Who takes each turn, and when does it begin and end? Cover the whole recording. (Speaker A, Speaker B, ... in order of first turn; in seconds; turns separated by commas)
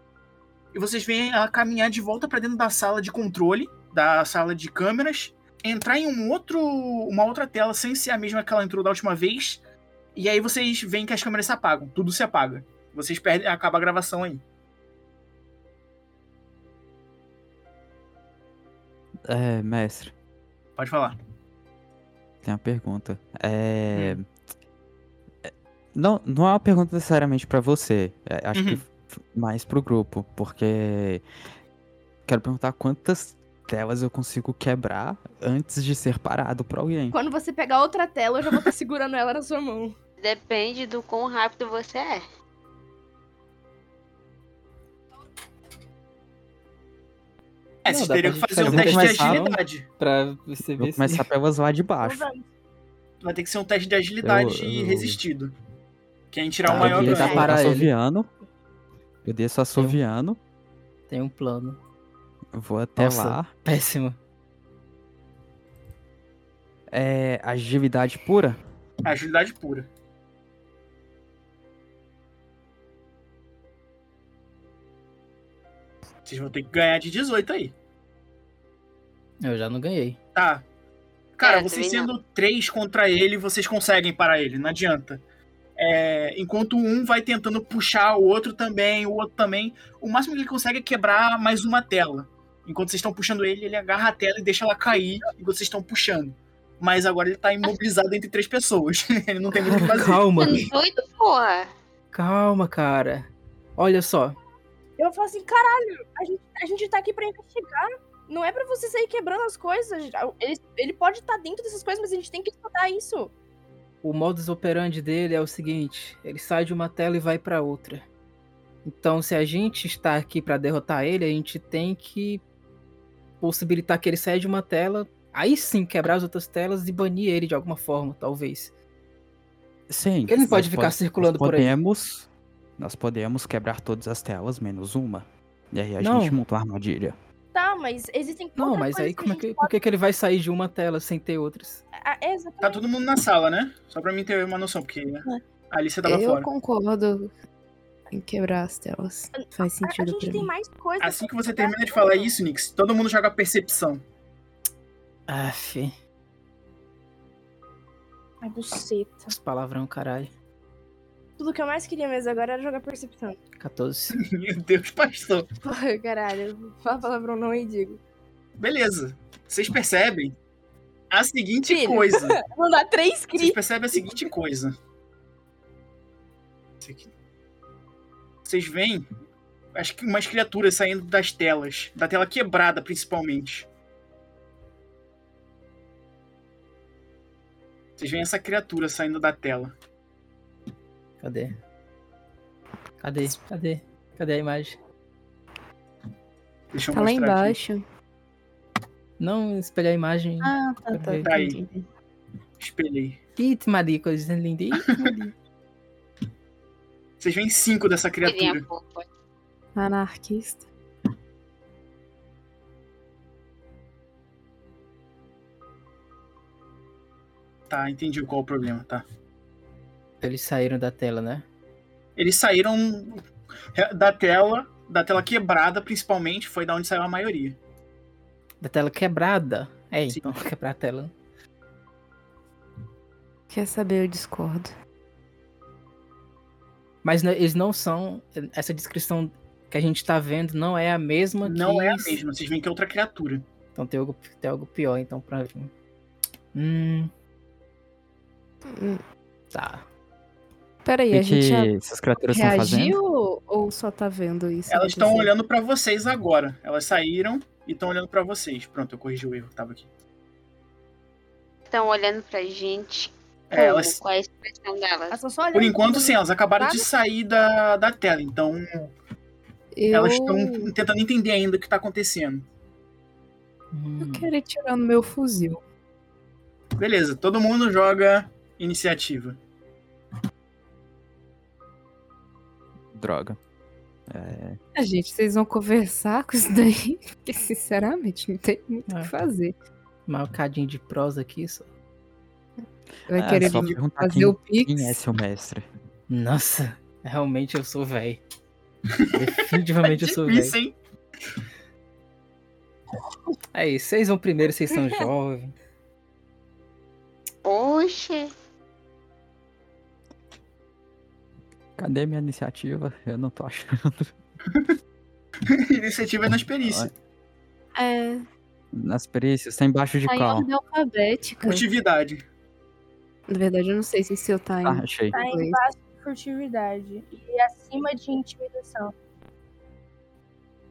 Speaker A: 0.7-9.6, Speaker A: 10.2-14.4, Speaker B: 19.3-20.1, Speaker A: 20.8-21.1, Speaker B: 22.4-24.3, Speaker A: 23.9-24.2, Speaker B: 25.4-31.2, Speaker A: 28.5-28.8, Speaker B: 32.2-37.1, Speaker C: 37.1-40.0, Speaker D: 40.2-42.2, Speaker A: 47.8-49.9, Speaker E: 47.9-51.2, Speaker B: 48.6-49.5, Speaker B: 50.8-52.3, Speaker C: 52.0-52.5, Speaker A: 53.2-55.5, Speaker B: 54.2-55.2, Speaker A: 56.3-57.5, Speaker E: 56.6-57.9, Speaker B: 56.6-58.3, Speaker B: 59.2-60.4, Speaker E: 61.1-61.8, Speaker B: 62.5-63.6, Speaker E: 63.0-64.2, Speaker B: 66.9-68.6, Speaker A: 69.0-69.9, Speaker A: 76.2-77.7, Speaker E: 79.4-80.2, Speaker A: 80.3-80.6, Speaker A: 81.4-85.2, Speaker D: 81.4-82.1, Speaker A: 85.8-100.2, Speaker E: 99.7-100.7, Speaker D: 100.3-101.7, Speaker E: 102.1-104.4, Speaker C: 105.0-113.3, Speaker E: 114.0-118.0, Speaker E: 118.8-122.4, Speaker E: 123.4-128.7, Speaker B: 129.9-137.2, Speaker E: 130.3-131.7, Speaker E: 136.0-136.4, Speaker C: 137.5-139.8, Speaker E: 138.6-141.8, Speaker C: 141.9-142.8, Speaker A: 142.6-146.5, Speaker F: 146.0-147.3, Speaker F: 148.1-150.5, Speaker C: 149.3-152.4, Speaker A: 151.0-154.0, Speaker E: 155.3-155.9, Speaker C: 158.4-159.3, Speaker E: 159.3-160.3, Speaker C: 161.4-163.4, Speaker E: 163.6-164.2, Speaker A: 164.2-165.5, Speaker C: 165.6-168.0, Speaker A: 168.6-170.3, Speaker A: 171.1-172.4, Speaker C: 171.7-174.2, Speaker A: 173.3-174.7, Speaker A: 176.8-177.1, Speaker A: 178.4-179.1, Speaker A: 179.7-183.7, Speaker A: 188.0-189.7, Speaker E: 191.2-191.5, Speaker E: 193.0-194.8, Speaker A: 196.7-197.6, Speaker F: 196.9-197.8, Speaker E: 199.2-201.3, Speaker F: 200.4-201.9, Speaker A: 201.2-201.6, Speaker A: 202.6-203.2, Speaker E: 203.4-205.3, Speaker A: 207.2-208.6, Speaker D: 208.2-209.1, Speaker F: 209.8-210.7, Speaker A: 217.7-219.0, Speaker E: 220.2-221.4, Speaker A: 222.2-227.6, Speaker E: 228.6-231.1, Speaker A: 230.1-230.4, Speaker F: 233.5-234.7, Speaker E: 237.0-242.2, Speaker A: 241.4-243.4, Speaker E: 243.8-245.7, Speaker E: 246.5-247.1, Speaker F: 248.7-249.0, Speaker E: 249.5-249.8, Speaker F: 250.8-251.7, Speaker B: 251.1-253.0, Speaker F: 252.3-255.3, Speaker A: 254.7-259.9, Speaker D: 261.7-265.2, Speaker A: 263.5-264.0, Speaker C: 265.1-266.9, Speaker A: 265.5-268.9, Speaker F: 269.7-270.7, Speaker A: 269.9-272.4, Speaker E: 273.7-274.3, Speaker F: 274.0-275.6, Speaker A: 276.8-279.4, Speaker B: 282.9-283.4, Speaker B: 284.1-284.6, Speaker F: 284.8-289.5, Speaker E: 288.9-289.1, Speaker E: 290.1-291.7, Speaker F: 293.1-295.0, Speaker B: 293.1-295.6, Speaker E: 296.1-298.2, Speaker E: 299.1-300.6, Speaker A: 299.8-300.8, Speaker E: 303.5-305.6, Speaker D: 307.4-308.3, Speaker B: 311.8-314.1, Speaker A: 315.5-316.9, Speaker B: 316.6-316.9, Speaker F: 317.7-318.2, Speaker B: 318.7-320.5, Speaker F: 320.1-321.7, Speaker A: 321.4-322.2, Speaker F: 323.3-325.6, Speaker B: 324.6-325.1, Speaker C: 325.1-328.9